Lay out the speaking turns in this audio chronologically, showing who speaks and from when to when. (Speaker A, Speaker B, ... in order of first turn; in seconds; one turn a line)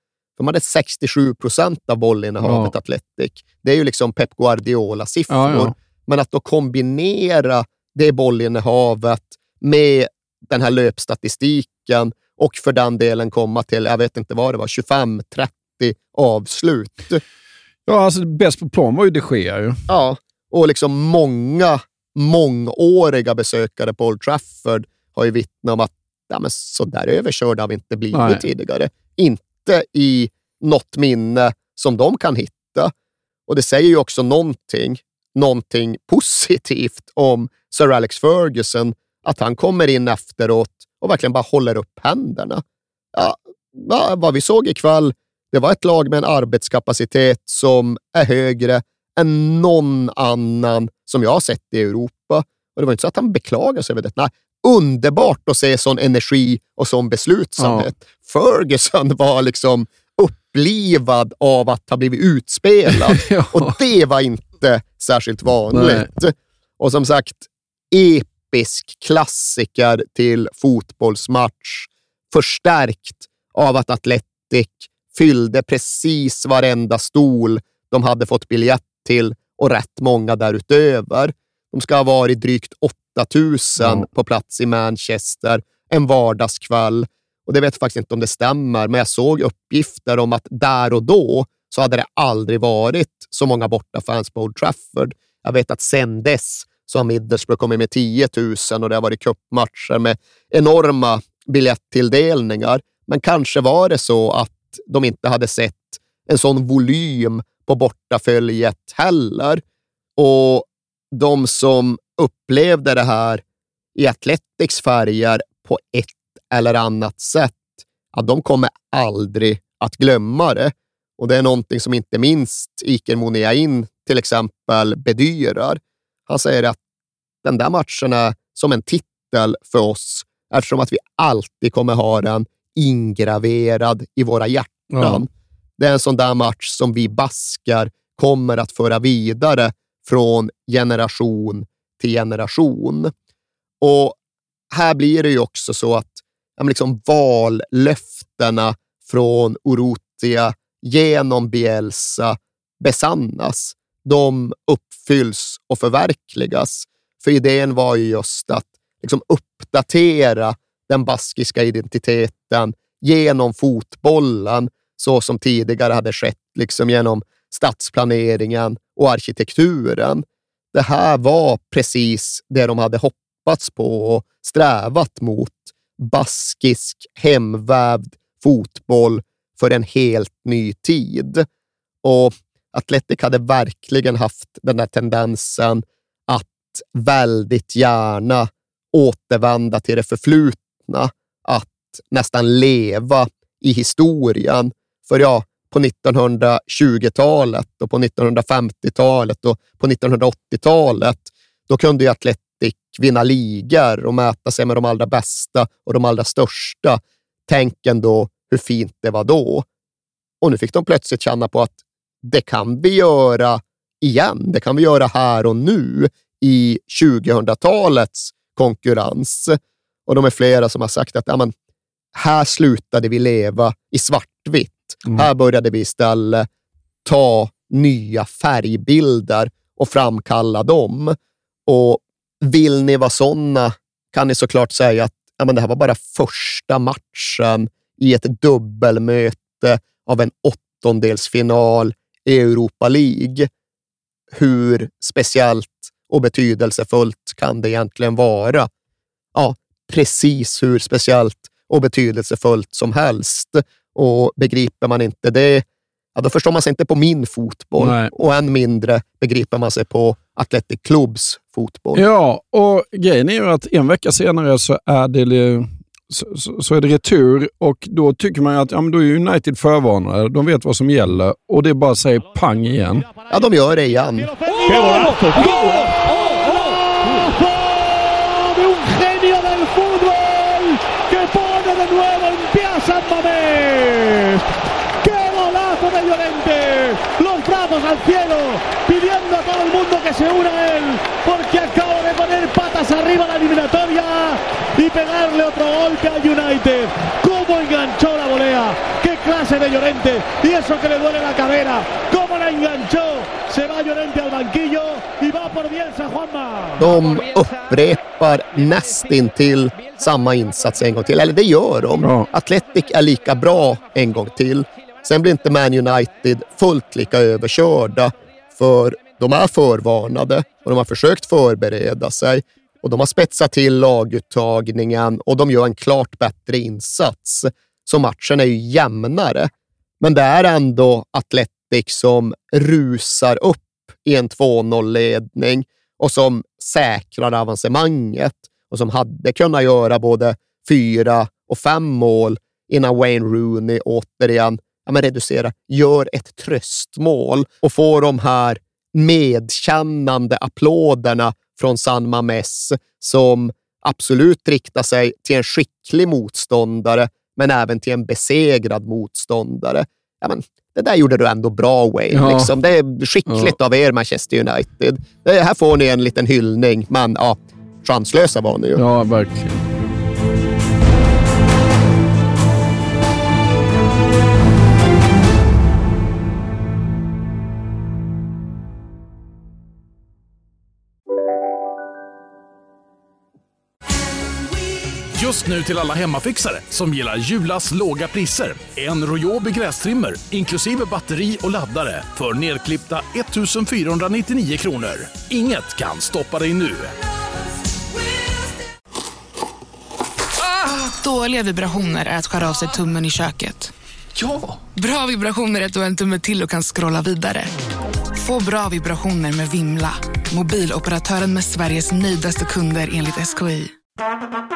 Speaker A: 0.4-17.2
Speaker B: 2.4-2.7
Speaker B: 5.3-5.7
Speaker B: 17.9-19.8
Speaker A: 19.9-32.9
Speaker B: 28.1-28.4
Speaker A: 33.5-42.6
Speaker A: 43.1-109.6
Speaker B: 57.6-57.9
Speaker B: 63.1-63.8
Speaker B: 65.7-66.1
Speaker A: 110.2-113.4
Speaker A: 114.0-126.8
Speaker A: 127.4-143.1
Speaker B: 134.9-135.2
Speaker A: 143.8-144.2
Speaker A: 144.7-181.5
Speaker A: 182.0-209.7
Speaker A: 210.4-221.5
Speaker A: 222.2-226.5
Speaker A: 227.1-231.2
Speaker A: 231.7-243.5
Speaker A: 244.3-248.7
Speaker A: 249.3-262.1
Speaker B: 257.8-258.1
Speaker B: 261.9-273.1
Speaker A: 273.3-274.3
Speaker C: 274.0-284.4
Speaker C: 285.0-306.8
Speaker A: 306.8-368.8
Speaker B: 312.0-312.3
Speaker B: 362.1-362.5
Speaker B: 368.8-369.6
Speaker D: 385.1-396.9
Speaker E: 400.6-403.7
Speaker E: 404.7-407.5
Speaker E: 408.1-413.8